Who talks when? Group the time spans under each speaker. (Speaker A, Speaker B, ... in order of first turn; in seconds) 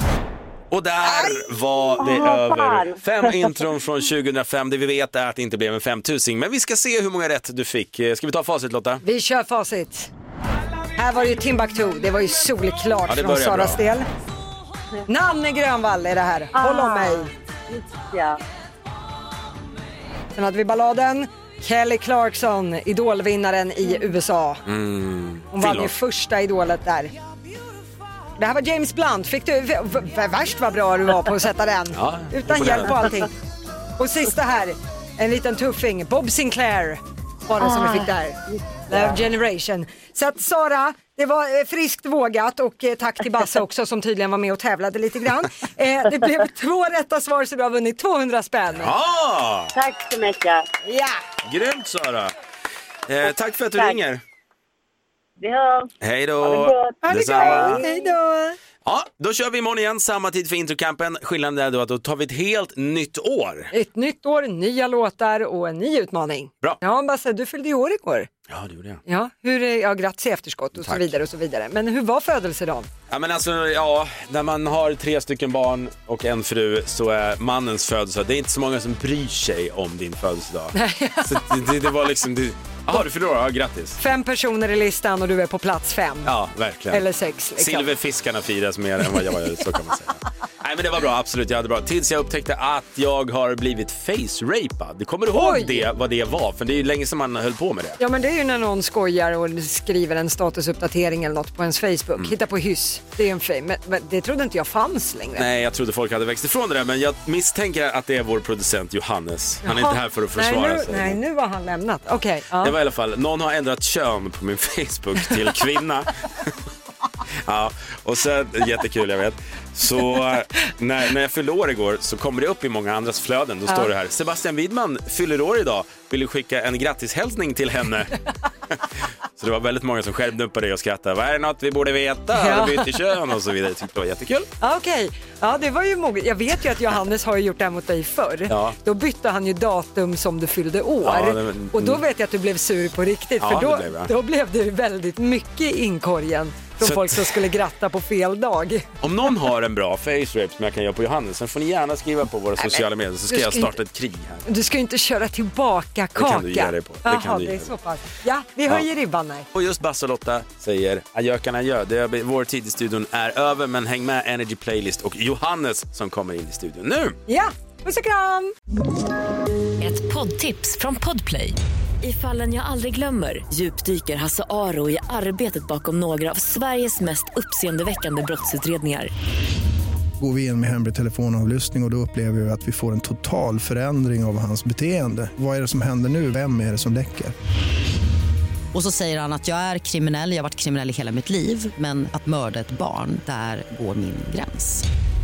Speaker A: 0.7-9.0, 13.1-13.8, 24.6-25.9, 31.9-33.0, 48.7-49.7, 51.4-52.3, 53.1-54.2, 56.0-57.8, 58.8-63.7, 68.5-69.0, 70.8-71.1, 73.1-84.0, 86.2-87.0, 87.6-98.0, 105.3-111.2, 112.6-116.5, 117.5-128.2, 129.4-134.5, 138.5-138.8, 141.0-142.0, 143.4-144.1, 146.8-147.3, 149.0-154.4, 156.2-157.7, 159.5-167.2
Speaker B: 1.0-1.5, 9.0-10.1, 10.9-14.1, 15.1-17.3, 20.3-24.6, 25.5-27.1, 28.4-33.3, 34.0-38.4, 38.9-48.9, 50.8-51.2, 57.0-58.6, 63.7-68.3, 69.0-72.9, 80.7-81.4, 84.0-86.3, 86.9-87.9, 95.3-95.9, 98.0-105.5, 109.6-112.8, 132.3-133.0, 134.6-148.9, 152.6-153.8, 154.4-159.5, 167.3-168.5
Speaker C: 2.0-3.4, 16.5-18.4, 37.7-38.0, 49.7-50.6, 55.4-55.9, 56.4-57.8
Speaker D: 169.8-179.1
Speaker E: 180.2-187.3
Speaker F: 188.7-194.8